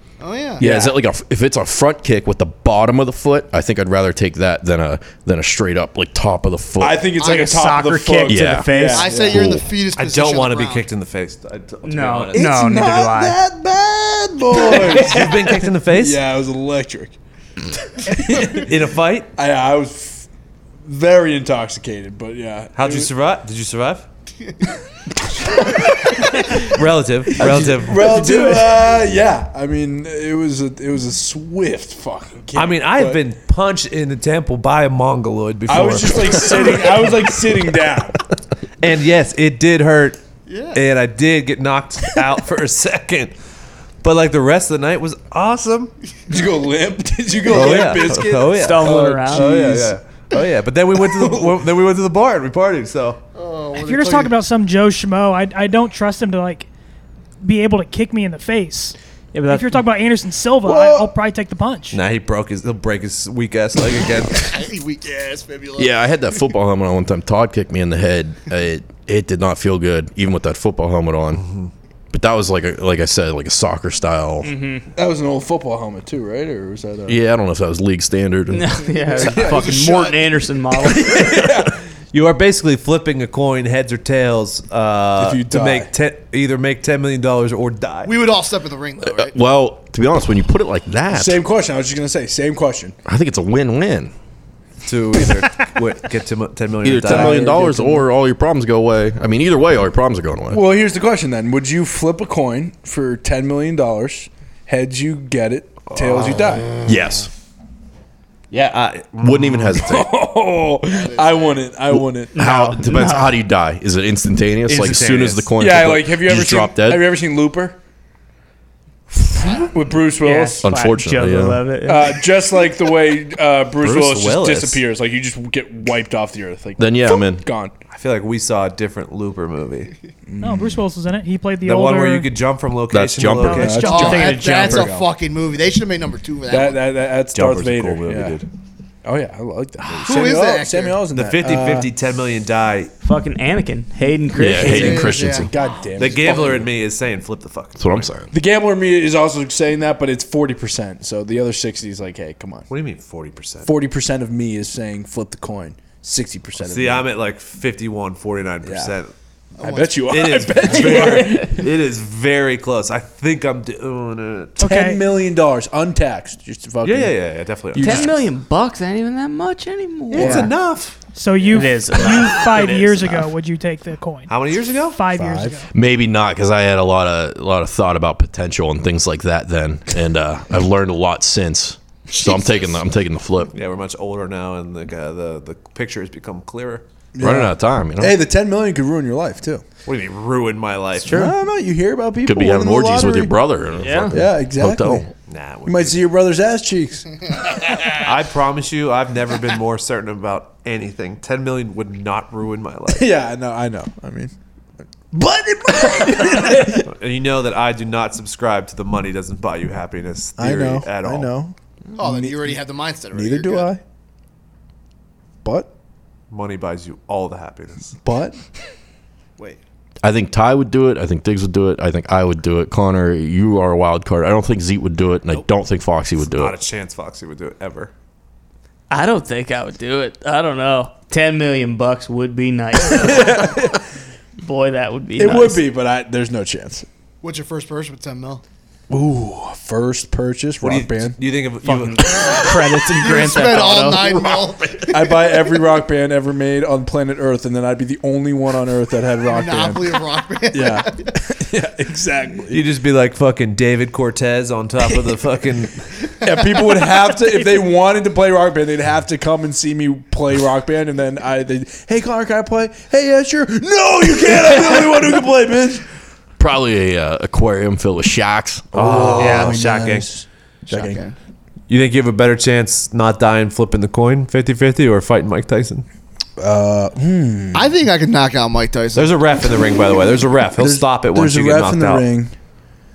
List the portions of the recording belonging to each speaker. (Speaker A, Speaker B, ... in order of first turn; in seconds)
Speaker A: 0.2-0.7, 7.2-7.5, 8.9-10.9, 40.5-40.8, 53.4-54.4, 64.3-66.0, 79.1-80.4, 88.0-89.4, 110.9-111.5, 133.9-136.8, 140.0-141.0, 144.6-145.5, 146.2-146.5, 159.6-160.7, 182.1-182.8, 212.0-213.7, 237.2-238.4, 243.0-245.4, 249.3-251.1, 270.7-271.1, 277.5-279.1
Speaker B: 0.6-0.9, 6.8-9.4, 12.3-17.1, 18.0-18.7, 19.4-20.3, 20.9-23.1, 25.8-26.2, 27.4-33.2, 35.7-38.2, 46.3-50.0, 51.1-51.5, 60.6-61.1, 75.0-77.2, 79.1-79.7, 80.9-81.8, 85.2-85.9, 91.1-93.0, 97.1-98.1, 100.5-106.7, 109.8-112.3, 115.6-117.8, 119.5-120.7, 121.8-127.7, 130.3-130.8, 133.4-135.0, 136.5-138.4, 139.1-141.9, 145.2-146.7, 148.3-152.7, 153.6-157.1, 158.6-158.9, 159.6-161.7, 164.6-167.2, 167.7-168.1, 170.1-170.5, 175.1-175.6, 187.2-189.6, 191.1-193.3, 194.1-195.1, 195.7-197.1, 202.9-204.3, 205.1-206.9, 210.4-212.6, 213.1-213.8, 215.4-215.7, 218.0-218.4, 232.8-233.8, 235.2-236.9, 238.9-241.2, 244.9-250.0, 250.5-252.6, 256.2-265.9, 268.7-271.0, 276.4-277.7, 280.6-282.3
Speaker C: 0.6-7.0, 8.3-9.7, 65.8-71.4, 72.1-74.5, 77.1-78.9, 89.0-91.4, 93.0-94.1, 96.8-100.6, 106.8-107.3, 109.2-110.1, 111.9-117.1, 120.6-121.6, 126.8-127.4, 132.9-133.7, 144.3-145.5, 147.8-148.3, 175.7-183.5, 187.2-188.2, 192.2-195.1, 220.0-226.6, 266.4-269.6
Speaker D: 7.3-9.2, 11.8-13.4, 28.0-28.7, 48.5-49.8, 59.3-59.8, 74.4-74.8, 78.5-81.4, 112.3-113.3, 120.2-122.2, 133.8-134.9, 143.0-145.1, 167.8-170.5, 171.5-173.3, 191.0-191.3, 193.8-194.2, 228.9-233.7, 234.4-235.6, 241.6-244.2
Speaker E: 9.9-12.5, 14.7-16.2, 18.5-19.3, 22.8-24.1, 26.6-28.2, 32.5-36.8, 38.8-40.2, 40.7-43.3, 44.0-45.9, 47.5-53.2, 61.9-64.5, 71.4-71.7, 81.3-88.2, 94.8-97.5, 106.0-106.4, 108.5-110.0, 114.7-115.5, 123.8-124.8, 127.9-129.9, 131.6-134.0, 137.3-138.5, 141.2-142.9, 146.0-148.1, 152.7-153.7, 156.6-159.1, 160.1-164.6, 166.8-168.1, 170.1-171.0, 174.3-175.0, 183.5-186.8, 189.9-191.3, 195.3-196.0, 198.0-203.1, 206.2-211.3, 216.3-218.0, 226.2-227.9, 240.6-242.3, 252.5-255.9, 268.8-270.1, 271.7-275.9, 278.9-282.1
Speaker F: 53.8-56.7, 57.4-62.0, 130.4-132.3, 133.7-134.8, 164.6-165.0, 171.2-174.3, 174.9-175.7